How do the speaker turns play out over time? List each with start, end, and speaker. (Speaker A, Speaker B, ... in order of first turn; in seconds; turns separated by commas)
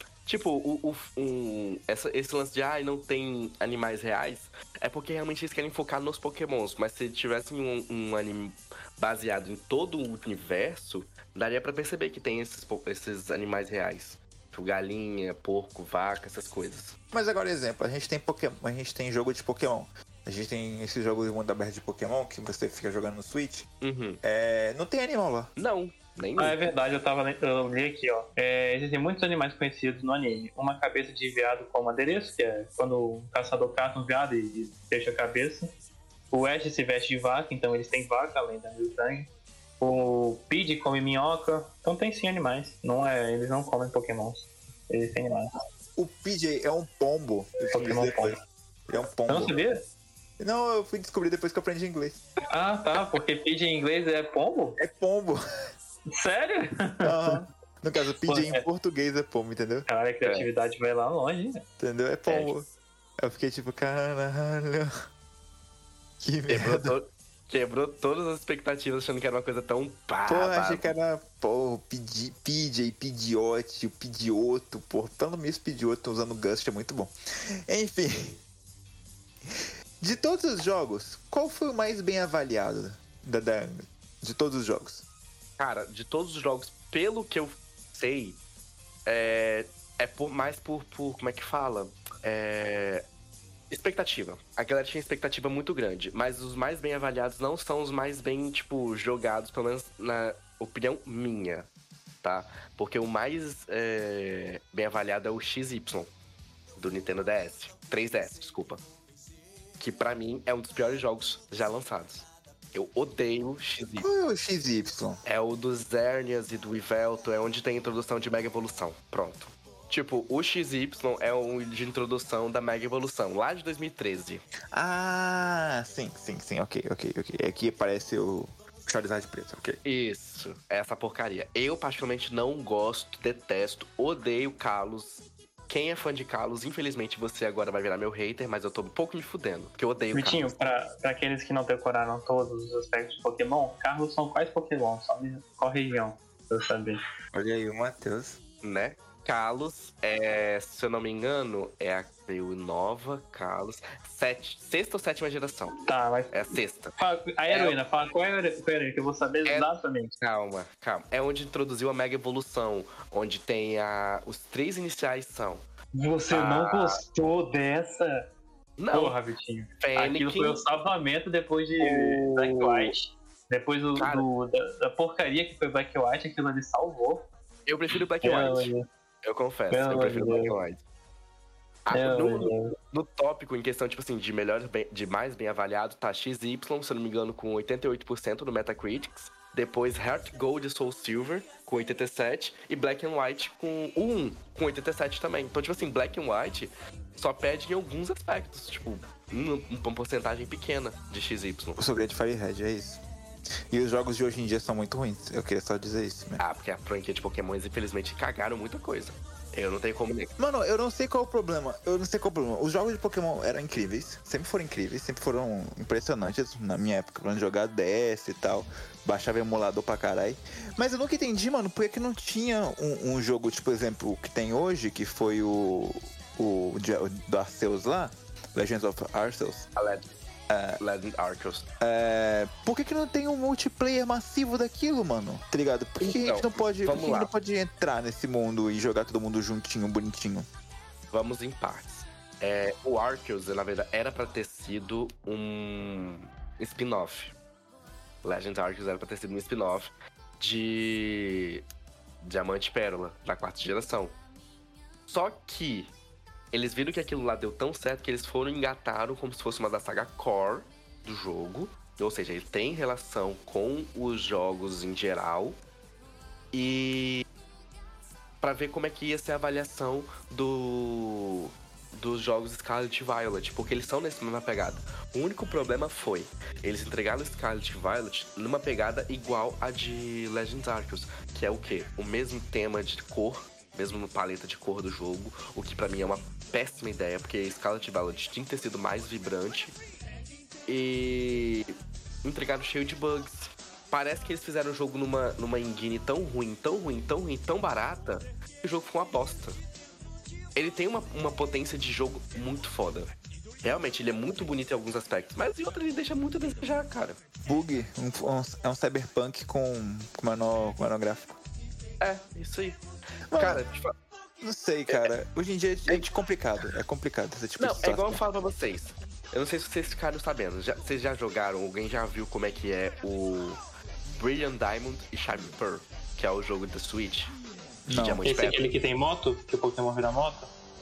Speaker A: 0.2-17.0, Speaker B: 17.1-23.7, Speaker A: 23.8-24.2, Speaker B: 24.2-25.5, Speaker A: 25.6-26.6, Speaker C: 26.4-35.7, Speaker C: 36.3-45.5, Speaker B: 46.0-49.6, Speaker C: 47.7-48.4, Speaker C: 49.3-49.8, Speaker B: 50.4-52.2, Speaker C: 52.5-54.8, Speaker B: 54.8-55.4, Speaker C: 56.1-57.5, Speaker B: 57.0-59.9, Speaker C: 58.3-58.6, Speaker C: 59.9-61.6, Speaker B: 61.8-62.7, Speaker A: 62.3-62.5, Speaker B: 63.2-64.9, Speaker B: 66.2-66.9, Speaker A: 66.5-70.9, Speaker B: 70.3-77.1, Speaker B: 77.7-78.4, Speaker B: 79.5-85.0, Speaker A: 85.6-88.4, Speaker A: 89.0-93.0, Speaker A: 93.7-101.7, Speaker A: 102.2-106.1, Speaker A: 106.8-108.8, Speaker A: 109.8-114.1, Speaker B: 114.0-115.2, Speaker A: 115.2-124.4, Speaker B: 124.7-129.8, Speaker A: 129.8-140.6, Speaker C: 140.1-147.0, Speaker B: 147.3-148.4, Speaker A: 148.6-155.8, Speaker C: 155.8-160.1, Speaker A: 156.3-157.0, Speaker A: 157.5-157.8, Speaker A: 159.4-165.6, Speaker C: 165.9-168.3, Speaker A: 166.3-167.0, Speaker A: 168.8-169.2, Speaker C: 168.9-177.3, Speaker A: 169.8-170.6, Speaker A: 171.8-172.9, Speaker A: 173.9-174.3, Speaker A: 177.7-178.7, Speaker C: 178.2-178.8, Speaker A: 179.2-180.8, Speaker C: 179.7-180.6, Speaker A: 181.8-202.0, Speaker C: 181.9-182.7, Speaker B: 201.8-203.0, Speaker B: 203.7-206.4, Speaker A: 206.4-210.3, Speaker B: 210.4-229.7, Speaker A: 229.8-230.1, Speaker B: 230.5-230.8, Speaker A: 230.8-231.7, Speaker B: 231.8-240.5, Speaker A: 236.0-237.3, Speaker A: 241.1-247.4, Speaker A: 248.2-251.6, Speaker A: 252.2-254.2, Speaker A: 255.1-255.9, Speaker A: 256.5-265.6, Speaker A: 266.5-267.2, Speaker A: 268.4-289.8, Speaker A: 290.7-299.6, Speaker A: 300.6-303.1, Speaker A: 303.6-307.2, Speaker B: 307.4-311.4, Speaker A: 312.0-312.8, Speaker B: 313.3-313.6, Speaker A: 313.4-313.9, Speaker B: 314.4-318.2, Speaker A: 317.6-323.6, Speaker A: 324.1-327.3, Speaker B: 327.9-328.2, Speaker A: 327.9-328.7, Speaker C: 328.2-330.5